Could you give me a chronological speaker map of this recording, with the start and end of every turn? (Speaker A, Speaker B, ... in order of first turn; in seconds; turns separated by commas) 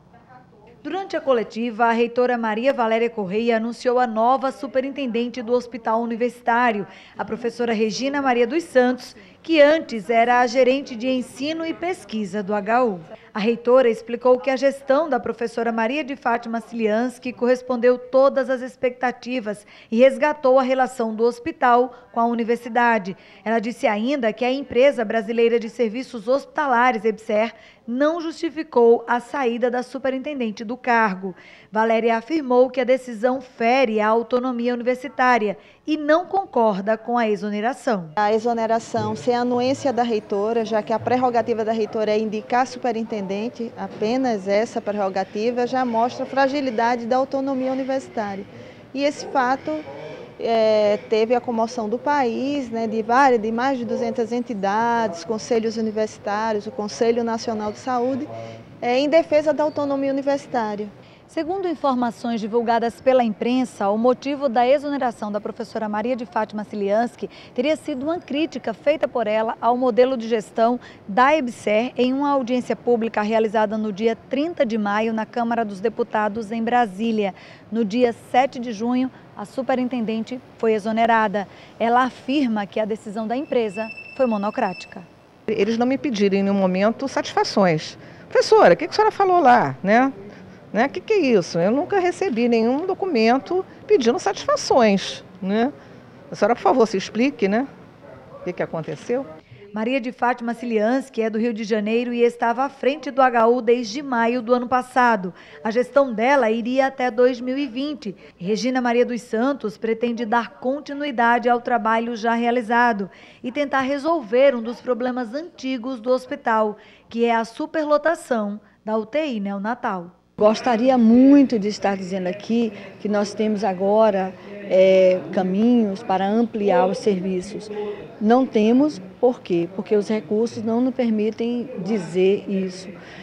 Speaker A: 0.8-38.1, Speaker B: 38.2-49.8, Speaker B: 50.4-60.9, Speaker A: 61.3-85.0, Speaker C: 85.5-90.1, Speaker C: 90.7-95.7, Speaker C: 96.3-97.7, Speaker C: 98.5-99.3, Speaker A: 99.7-120.1, Speaker D: 120.4-132.9